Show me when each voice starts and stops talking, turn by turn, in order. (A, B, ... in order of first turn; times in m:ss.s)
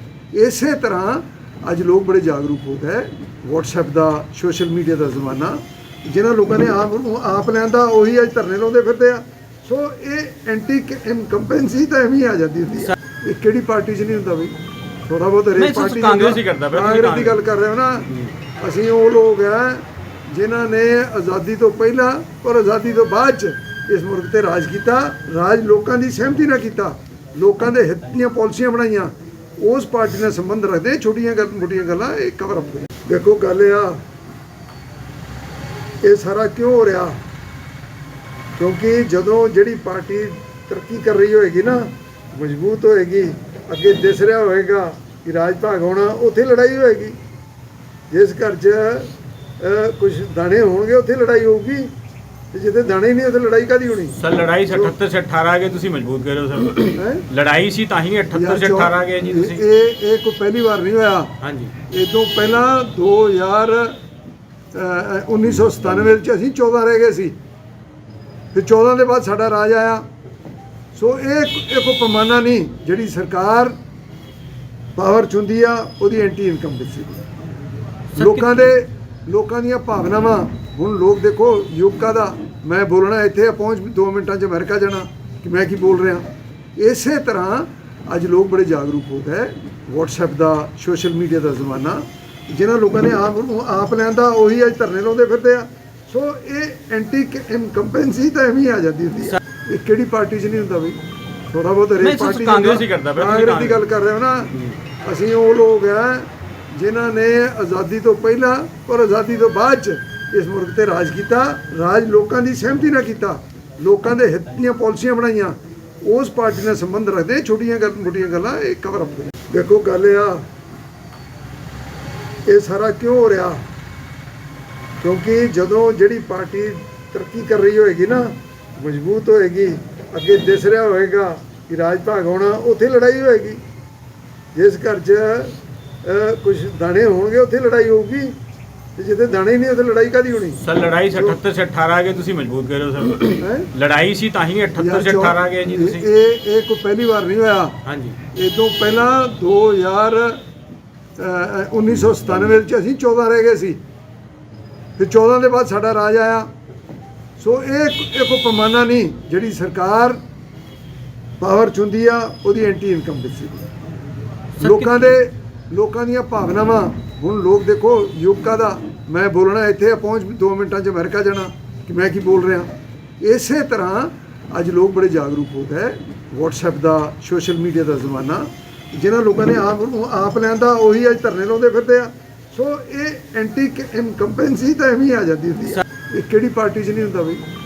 0:00.3-0:14.5 A
0:15.0-0:18.1 A
0:15.6-0:17.4 B
0:18.6-0:34.0 A
0:36.0-0:37.2 A
0:38.6-0:47.2 A
0:48.1-0:51.9 A
0:52.5-0:54.2 A
0:54.2-0:59.6 B
0:57.0-0:57.2 A
0:58.3-1:01.3 A
1:01.4-1:01.7 B
1:01.9-1:04.0 A
1:04.7-1:07.3 A
1:08.5-1:10.0 A
1:10.9-1:13.7 A
1:15.0-1:17.2 A
1:18.1-1:18.7 B
1:18.2-1:26.2 A
1:26.8-1:41.0 A
1:41.5-2:00.5 A
1:42.0-1:43.8 B
2:02.5-2:03.6 A
2:05.0-2:13.6 A
2:14.5-2:18.4 A
2:19.0-2:20.6 A
2:20.6-2:26.0 B
2:21.1-2:21.4 A
2:23.4-2:23.7 A
2:24.8-2:27.7 A
2:27.8-2:28.2 B
2:28.3-2:30.4 A
2:31.2-2:33.8 A
2:35.0-2:36.5 A
2:37.4-2:40.2 A
2:41.4-2:43.6 A
2:44.6-2:45.2 B
2:44.6-2:52.7 A
2:53.2-3:07.4 A